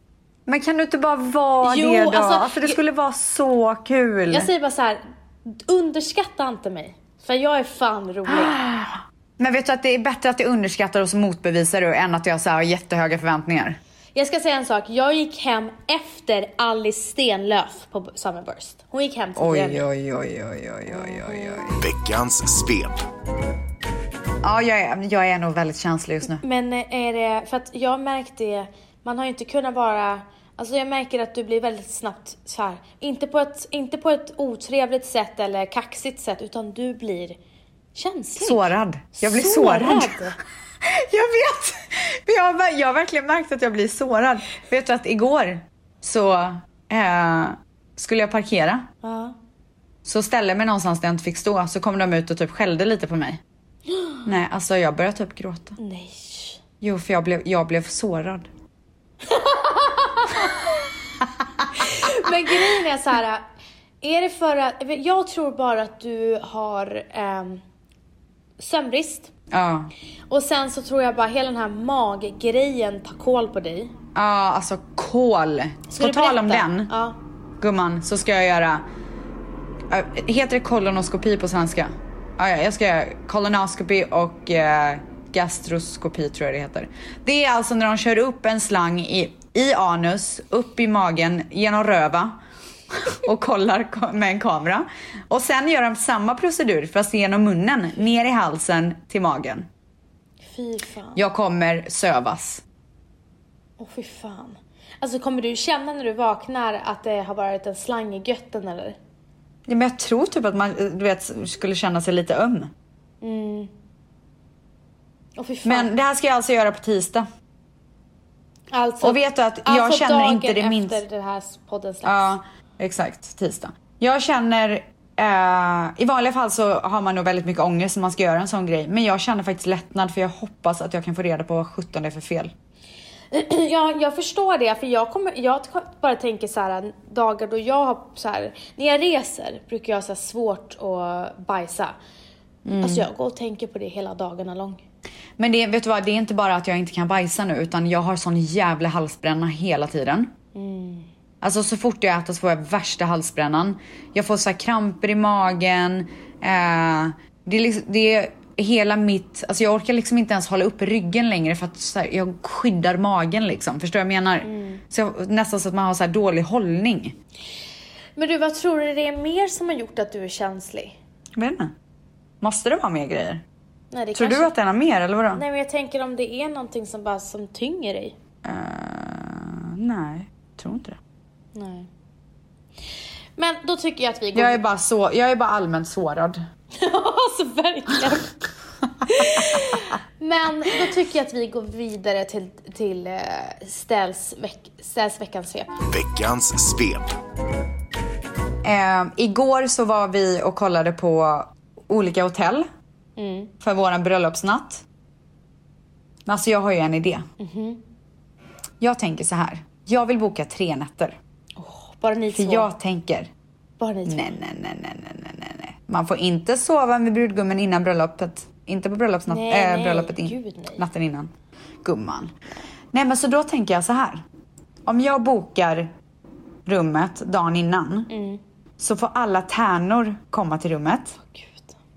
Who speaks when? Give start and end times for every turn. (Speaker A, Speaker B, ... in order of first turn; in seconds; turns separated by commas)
Speaker A: 0.5-4.5, Speaker B: 1.6-2.8, Speaker B: 4.3-8.6, Speaker A: 8.3-13.8, Speaker B: 14.2-19.9, Speaker A: 19.4-21.8, Speaker B: 20.9-21.6, Speaker C: 21.8-23.0, Speaker A: 24.4-26.4, Speaker B: 26.2-37.4, Speaker B: 38.0-40.4, Speaker A: 38.4-40.2, Speaker A: 40.8-48.9, Speaker B: 49.0-49.4, Speaker A: 50.0-53.4, Speaker B: 53.9-54.2, Speaker A: 54.2-55.8, Speaker B: 55.8-56.6, Speaker A: 56.8-58.5, Speaker B: 59.2-60.6, Speaker B: 61.8-63.4, Speaker B: 64.0-67.6, Speaker B: 68.6-69.3, Speaker A: 69.5-69.9, Speaker B: 70.3-73.9, Speaker A: 74.2-76.9, Speaker B: 75.9-77.2, Speaker A: 77.6-78.8, Speaker A: 79.9-92.4, Speaker A: 92.9-99.7, Speaker B: 100.5-101.2, Speaker A: 101.2-102.6, Speaker B: 103.8-109.0, Speaker A: 109.7-112.7, Speaker B: 113.2-113.7, Speaker B: 115.4-115.9, Speaker A: 115.6-117.3, Speaker B: 118.7-122.4, Speaker A: 119.0-121.0, Speaker A: 122.0-132.5, Speaker B: 133.3-142.0, Speaker A: 142.7-143.1, Speaker B: 142.8-144.8, Speaker A: 145.4-150.3, Speaker B: 150.6-151.1, Speaker A: 151.4-167.2, Speaker B: 164.4-164.8, Speaker B: 168.2-171.0, Speaker A: 171.4-171.7, Speaker A: 172.4-173.4, Speaker B: 173.9-174.5, Speaker A: 174.2-175.4, Speaker B: 175.3-178.2, Speaker A: 178.4-181.0, Speaker B: 181.6-181.9, Speaker B: 183.4-184.6, Speaker A: 184.3-186.4, Speaker B: 186.7-188.3, Speaker A: 189.1-189.8, Speaker B: 189.1-195.7, Speaker C: 195.9-197.1, Speaker A: 198.6-202.7, Speaker B: 203.2-203.5, Speaker A: 203.6-204.8, Speaker A: 206.3-207.3, Speaker B: 207.4-207.8, Speaker A: 208.8-211.2, Speaker B: 211.6-212.7, Speaker A: 212.3-213.3, Speaker B: 213.8-214.3, Speaker A: 214.1-221.3, Speaker B: 219.3-220.8, Speaker A: 221.8-222.3, Speaker A: 222.9-224.2, Speaker A: 224.9-225.9, Speaker A: 226.7-228.1, Speaker B: 228.1-228.4, Speaker A: 228.8-231.2, Speaker B: 231.2-231.8